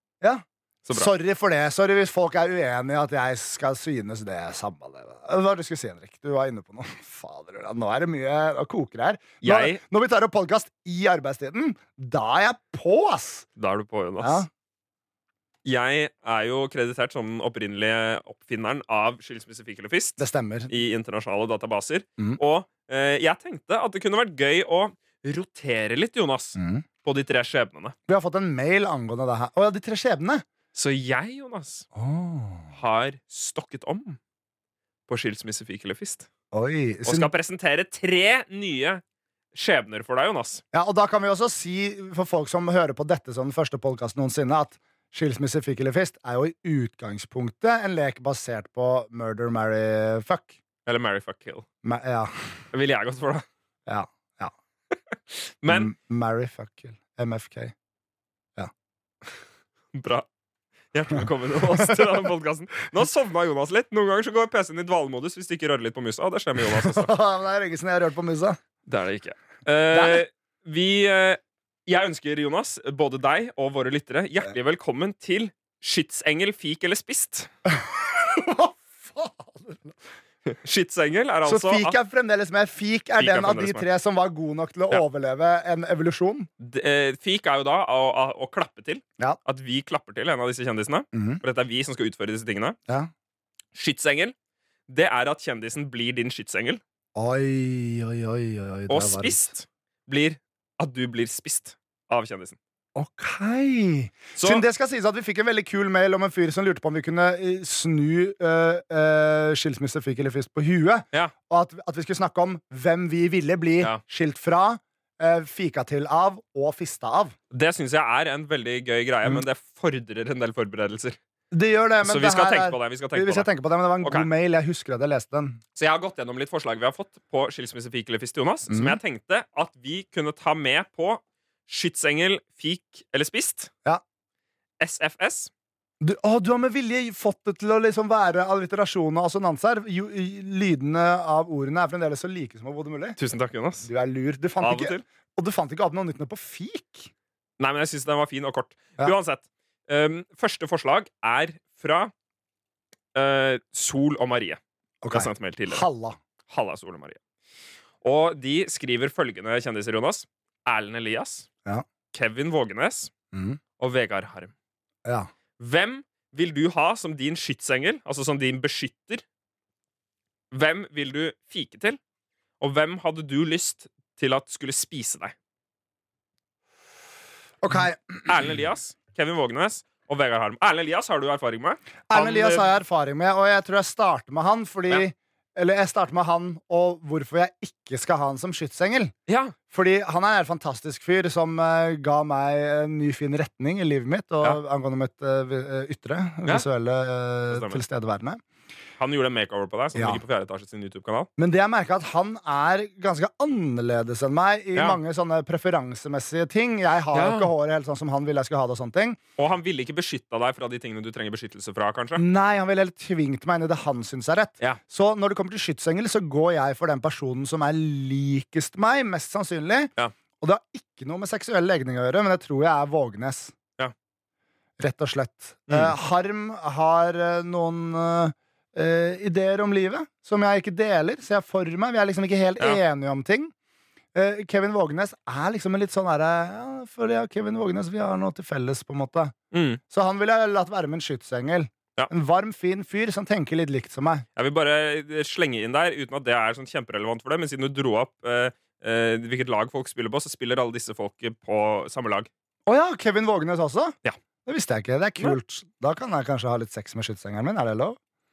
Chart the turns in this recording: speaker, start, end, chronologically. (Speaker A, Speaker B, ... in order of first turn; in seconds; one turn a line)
Speaker A: 0.2-13.5
Speaker B: 0.8-1.1
Speaker B: 9.4-9.8
Speaker B: 13.6-14.4
Speaker A: 14.2-14.5
Speaker B: 15.6-27.9
Speaker A: 20.2-20.7
Speaker A: 26.6-26.8
Speaker A: 28.1-30.4
Speaker B: 30.7-31.9
Speaker A: 31.9-32.7
Speaker B: 32.7-34.2
Speaker B: 35.1-36.3
Speaker A: 36.5-37.3
Speaker B: 37.0-39.0
Speaker B: 39.5-40.6
Speaker A: 40.7-50.5
Speaker B: 50.9-51.6
Speaker A: 51.8-52.4
Speaker B: 52.7-53.5
Speaker A: 53.9-54.5
Speaker B: 55.1-55.9
Speaker A: 55.7-57.7
Speaker B: 59.9-60.3
Speaker B: 60.9-67.1
Speaker A: 61.7-62.2
Speaker A: 66.6-68.6
Speaker B: 68.8-77.5
Speaker A: 69.9-70.2
Speaker A: 77.7-80.0
Speaker B: 80.5-82.0
Speaker A: 81.4-86.5
Speaker B: 83.2-83.8
Speaker B: 86.6-92.8
Speaker A: 91.1-91.4
Speaker B: 93.7-94.3
Speaker B: 94.9-96.8
Speaker A: 97.1-99.5
Speaker B: 98.9-102.6
Speaker A: 103.0-117.3
Speaker B: 104.3-104.6
Speaker B: 117.5-121.2
Speaker A: 121.5-125.6
Speaker B: 122.0-123.5
Speaker B: 124.0-124.3
Speaker B: 125.8-133.7
Speaker A: 128.7-129.0
Speaker B: 134.8-135.5
Speaker A: 136.0-143.2
Speaker B: 143.2-143.9
Speaker A: 143.8-147.1
Speaker B: 144.6-145.0
Speaker B: 147.6-152.1
Speaker B: 153.1-155.8
Speaker A: 155.0-156.2
Speaker B: 156.5-157.2
Speaker B: 158.0-161.5
Speaker B: 162.1-163.1
Speaker A: 163.3-163.6
Speaker B: 163.8-164.5
Speaker A: 165.0-165.3
Speaker B: 165.6-169.2
Speaker B: 170.5-172.0
Speaker B: 172.6-175.3
Speaker A: 177.6-178.4
Speaker B: 178.2-182.7
Speaker A: 182.1-189.1
Speaker B: 189.3-189.5
Speaker A: 189.7-198.4
Speaker B: 197.5-197.8
Speaker B: 199.0-201.3
Speaker A: 199.9-200.2
Speaker A: 201.4-209.2
Speaker B: 207.1-207.5
Speaker B: 209.4-212.2
Speaker A: 212.2-223.5
Speaker A: 224.8-233.5
Speaker B: 225.7-225.9
Speaker A: 234.1-239.3
Speaker B: 239.5-239.8
Speaker A: 239.9-244.2
Speaker B: 244.3-252.3
Speaker A: 252.7-258.0